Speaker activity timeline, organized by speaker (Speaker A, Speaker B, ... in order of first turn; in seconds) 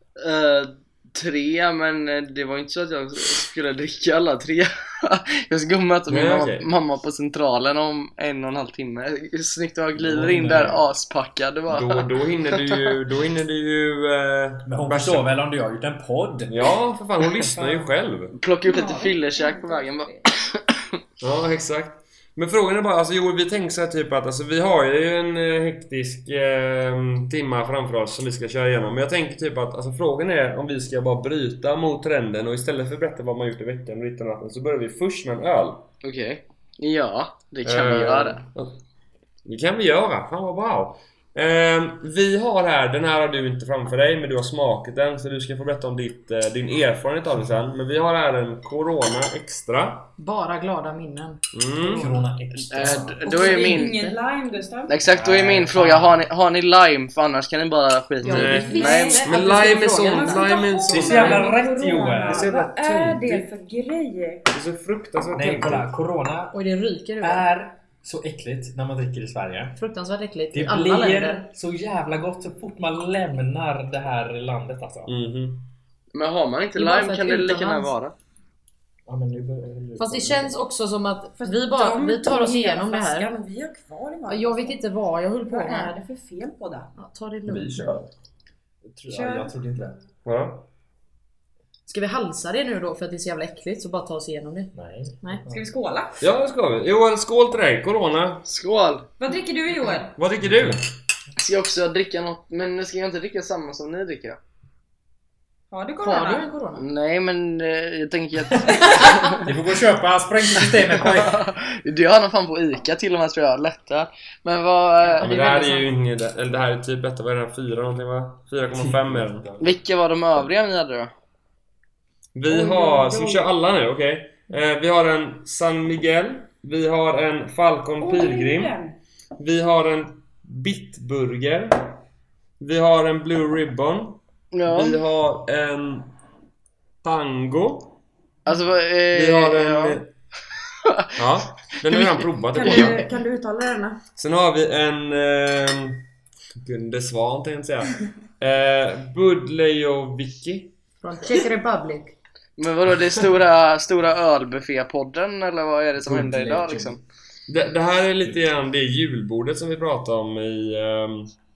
Speaker A: 0.2-12.9, 18.4-20.8, 36.0-38.4, 52.6-53.9, 54.9-59.2, 76.1-78.1, 98.5-99.1, 101.4-104.4, 106.8-109.4, 110.6-115.8, 119.6-121.1, 134.5-135.0, 138.4-140.0, 141.8-142.9, 152.6-157.0
Speaker B: 6.1-6.7, 11.7-15.3, 16.5-18.4, 21.2-35.9, 37.6-38.8, 39.5-50.1, 51.5-52.1, 58.2-61.5, 62.2-63.4, 64.5-65.9, 75.0-75.7, 87.5-88.1, 90.2-90.7, 96.2-98.5, 100.2-100.9, 115.2-119.5, 122.3-128.7, 129.4-132.0, 132.6-136.1, 137.0-138.0, 139.1-140.1, 141.2-143.0, 144.2-146.0, 146.6-150.7, 157.5-161.3
Speaker C: 10.0-10.8, 14.6-16.5, 51.8-53.2, 55.0-56.2, 60.9-62.5, 65.3-66.5, 67.2-69.8, 70.5-75.2, 79.1-80.5, 88.8-89.9, 94.7-95.6, 100.4-100.8, 109.4-111.4, 118.7-119.7, 156.0-157.0
Speaker D: 18.6-20.3, 53.2-54.9, 58.6-64.5, 81.4-84.8, 85.5-86.9, 89.1-89.5, 95.5-96.2, 99.2-100.2, 105.7-106.5, 108.7-109.4, 122.5-123.4, 128.0-129.0, 142.5-144.0
Speaker E: 50.2-52.2, 53.2-54.2, 58.2-60.7, 66.5-67.4, 69.8-71.4, 76.8-77.9, 80.0-83.3, 84.3-85.9, 87.0-88.0, 91.9-95.4, 106.0-106.8, 122.8-123.4, 151.0-152.2